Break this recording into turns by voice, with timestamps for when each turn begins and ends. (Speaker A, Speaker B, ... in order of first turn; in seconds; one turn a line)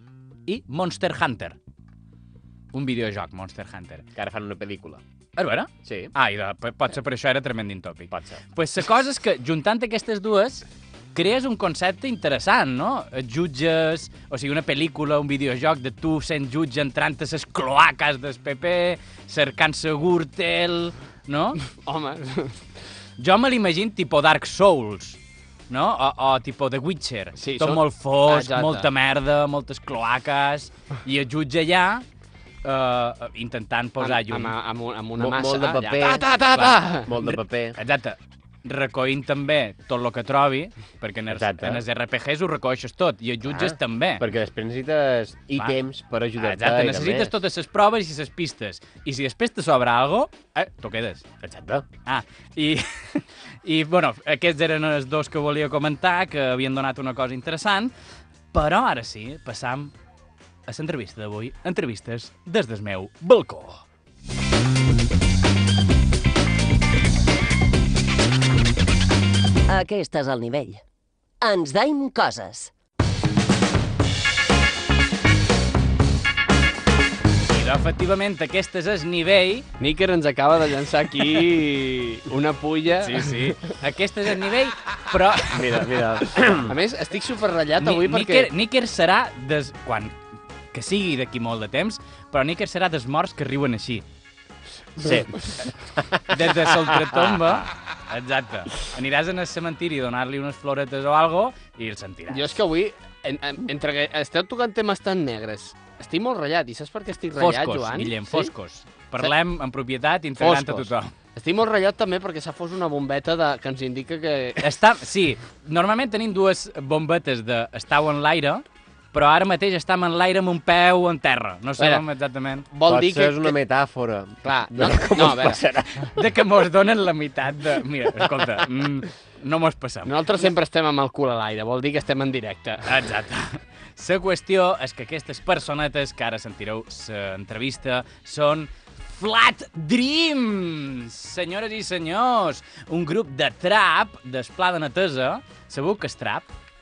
Speaker A: 0.5-1.6
Speaker A: 2.7-4.1
Speaker B: 4.2-5.0
Speaker A: 5.4-21.6
Speaker B: 5.8-6.1
Speaker B: 8.1-8.4
Speaker C: 21.6-22.6
Speaker A: 23.2-32.0
Speaker C: 27.4-28.9
Speaker A: 32.6-34.5
Speaker C: 34.0-37.2
Speaker B: 35.2-37.8
Speaker A: 37.8-44.2
Speaker B: 41.3-41.8
Speaker B: 43.5-47.3
Speaker A: 46.4-51.2
Speaker B: 51.4-51.9
Speaker A: 52.1-57.9
Speaker A: 58.5-59.9
Speaker A: 60.7-63.8
Speaker D: 69.7-70.8
Speaker D: 71.4-72.7
Speaker A: 77.5-79.7
Speaker C: 79.8-83.6
Speaker A: 83.0-86.0
Speaker B: 85.5-86.8
Speaker C: 86.7-88.5
Speaker A: 87.8-90.1
Speaker A: 90.7-94.0
Speaker B: 95.0-95.3
Speaker B: 96.0-97.6
Speaker A: 96.3-102.6
Speaker C: 102.3-108.5
Speaker A: 107.4-111.1
Speaker C: 110.4-114.7
Speaker A: 114.6-122.7
Speaker C: 121.8-122.0
Speaker C: 122.7-123.6
Speaker B: 122.9-126.1
Speaker C: 124.4-125.6
Speaker A: 126.2-130.4
Speaker C: 130.1-132.9
Speaker A: 132.8-146.5